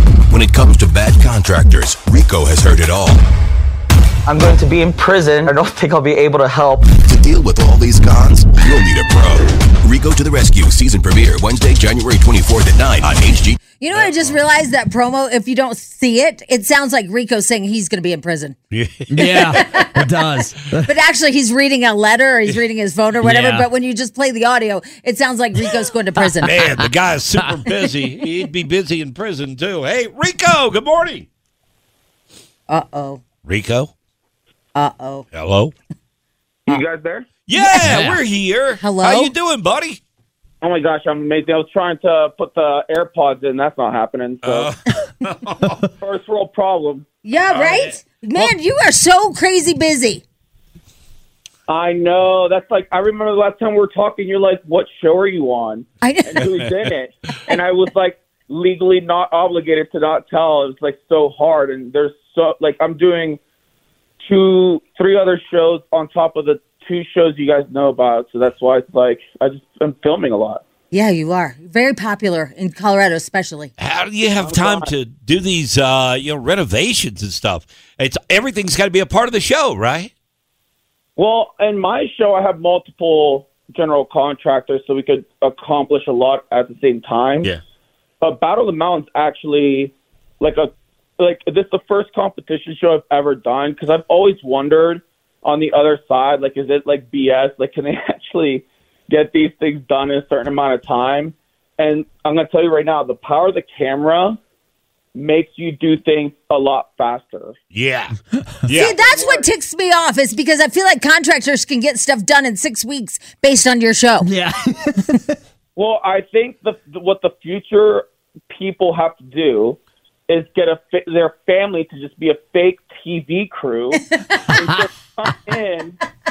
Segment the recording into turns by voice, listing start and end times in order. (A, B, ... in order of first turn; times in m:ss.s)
0:00.3-0:03.2 A
0:04.2-0:07.0 B
0:07.0-0:13.6 A
0:13.8-0:18.6 C
0:13.9-0:14.4 D
0:18.7-0:19.6 D
0:19.1-0:20.9 E
0:19.2-0:26.5 C
0:23.2-0:23.7 E
0:26.4-0:31.2 D
0:32.7-0:33.2 C
0:33.4-0:33.9 D
0:34.7-0:35.3 C
0:35.3-0:35.7 D
0:36.7-0:37.3 F
0:37.4-0:40.0 D
0:37.5-0:38.0 C
0:37.8-0:38.2 E
0:38.8-0:39.3 C
0:40.6-0:44.7 F
0:44.4-0:45.8 D
0:46.0-0:47.0 F
0:47.2-0:50.2 C
0:47.5-0:48.5 D
0:51.7-1:03.4 F
0:56.0-0:56.4 C
1:04.2-1:10.6 F
1:10.9-1:13.7 C
1:13.8-1:20.1 D
1:14.4-1:14.9 F
1:21.2-1:27.5 F
1:28.2-1:44.4 F
1:45.1-1:47.5 F
1:47.7-1:49.0 D
1:48.7-1:54.3 C
1:49.0-1:49.5 F
1:54.2-1:55.4 E
1:55.8-2:06.0 F
2:04.1-2:04.5 C